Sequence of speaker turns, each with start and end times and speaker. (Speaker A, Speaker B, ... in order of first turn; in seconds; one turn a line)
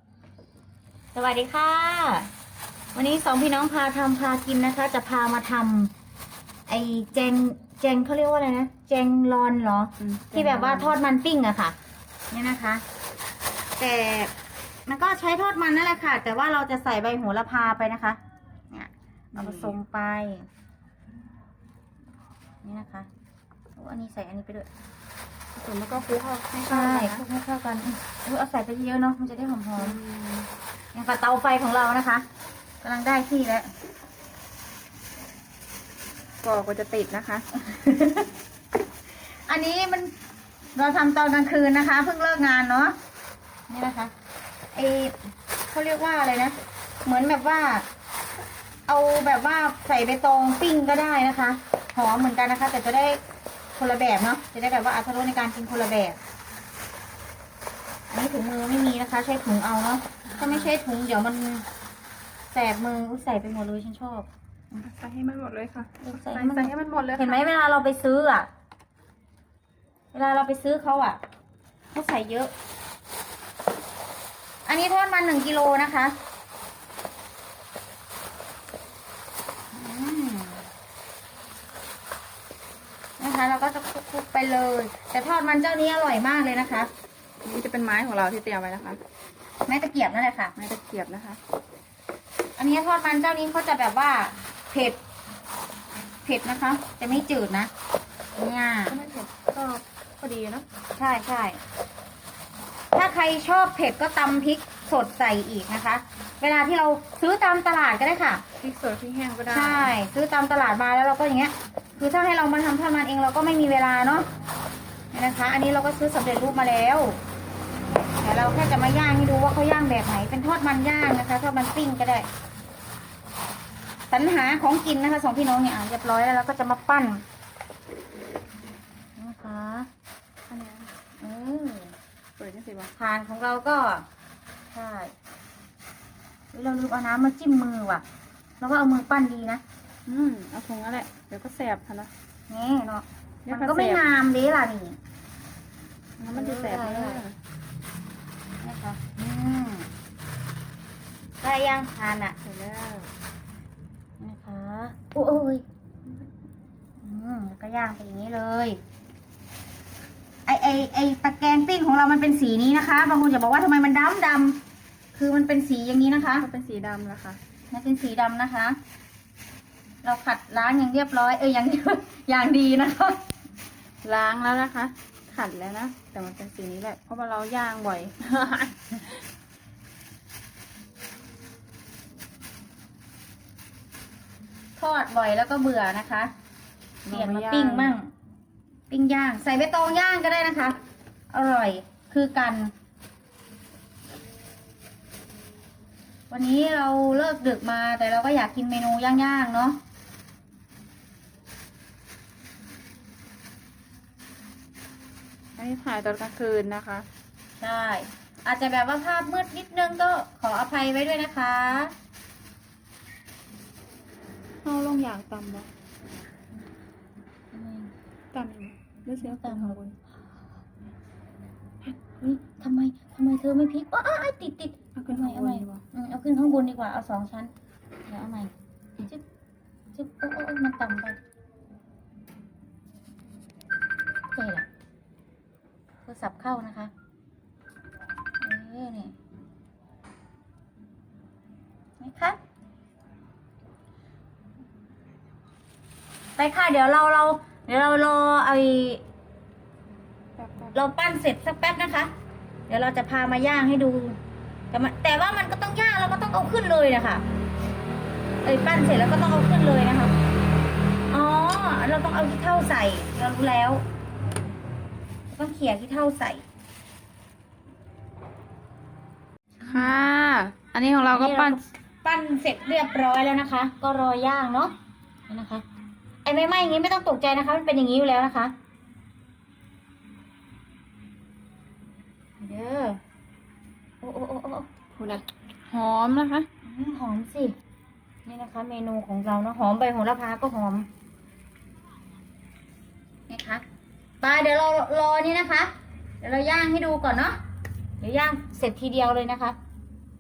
Speaker A: 1.1-2.3
Speaker A: 3.0-5.9
Speaker A: 6.7-11.8
Speaker B: 10.0-10.9
Speaker A: 12.3-12.8
Speaker A: 13.8-14.3
Speaker A: 14.9-18.2
Speaker A: 18.7-20.5
Speaker B: 19.3-19.8
Speaker A: 22.6-23.1
Speaker A: 23.8-24.7
Speaker B: 25.6-27.2
Speaker A: 26.7-30.0
Speaker B: 29.8-30.5
Speaker A: 30.9-32.2
Speaker A: 32.8-33.7
Speaker B: 36.4-37.5
Speaker A: 37.5-38.3
Speaker A: 39.5-40.1
Speaker A: 40.8-43.0
Speaker A: 43.7-44.1
Speaker A: 44.7-45.1
Speaker A: 45.7-47.9
Speaker A: 48.9-53.2
Speaker A: 53.8-56.2
Speaker A: 58.1-61.6
Speaker B: 60.3-60.7
Speaker A: 62.5-64.8
Speaker B: 64.8-67.4
Speaker A: 66.0-68.5
Speaker A: 70.1-71.2
Speaker A: 71.9-72.5
Speaker A: 74.7-76.2
Speaker A: 79.7-80.7
Speaker A: 83.2-86.9
Speaker B: 87.4-89.0
Speaker A: 89.7-90.5
Speaker B: 90.6-91.4
Speaker A: 92.6-95.0
Speaker A: 96.2-97.7
Speaker A: 98.4-99.0
Speaker B: 98.9-100.7
Speaker A: 101.0-101.6
Speaker A: 102.9-108.4
Speaker B: 108.6-110.0
Speaker A: 109.5-114.3
Speaker A: 115.1-117.2
Speaker A: 118.2-122.3
Speaker A: 124.1-127.2
Speaker A: 129.2-129.9
Speaker B: 130.5-130.9
Speaker A: 131.2-131.9
Speaker B: 132.4-132.9
Speaker A: 133.0-134.1
Speaker A: 134.7-135.1
Speaker A: 136.5-138.0
Speaker A: 138.6-139.6
Speaker B: 140.1-142.1
Speaker A: 142.5-145.0
Speaker B: 143.5-144.0
Speaker B: 146.2-147.4
Speaker A: 146.3-147.2
Speaker A: 148.6-149.9
Speaker A: 151.4-152.4
Speaker B: 152.4-153.1
Speaker A: 154.2-155.6
Speaker A: 157.0-158.8
Speaker A: 160.5-164.6
Speaker A: 165.1-166.5
Speaker B: 166.4-167.4
Speaker A: 167.7-168.8
Speaker A: 170.0-173.2
Speaker B: 174.0-179.2
Speaker A: 184.8-186.3
Speaker B: 187.1-187.9
Speaker A: 187.1-188.1
Speaker A: 188.9-190.8
Speaker A: 191.3-192.7
Speaker A: 196.3-199.8
Speaker B: 205.6-207.1
Speaker A: 207.6-211.9
Speaker B: 214.6-215.7
Speaker A: 217.5-217.9
Speaker B: 218.3-220.0
Speaker A: 219.2-219.8
Speaker A: 221.8-227.5
Speaker B: 224.9-225.8
Speaker A: 228.1-228.5
Speaker A: 229.9-231.2
Speaker A: 234.3-234.7
Speaker A: 236.1-236.9
Speaker A: 238.4-239.2
Speaker A: 242.0-242.4
Speaker A: 246.4-249.0
Speaker B: 250.4-250.8
Speaker A: 250.7-252.1
Speaker A: 252.7-254.2
Speaker A: 254.7-257.2
Speaker A: 258.4-260.1
Speaker A: 261.1-263.8
Speaker A: 265.3-266.4
Speaker B: 269.6-271.6
Speaker A: 271.1-274.7
Speaker A: 275.3-275.6
Speaker A: 276.2-278.5
Speaker A: 282.4-283.0
Speaker A: 284.0-284.7
Speaker B: 284.9-286.5
Speaker A: 286.6-287.6
Speaker A: 288.3-290.9
Speaker A: 293.3-293.6
Speaker A: 294.2-297.4
Speaker A: 298.0-299.6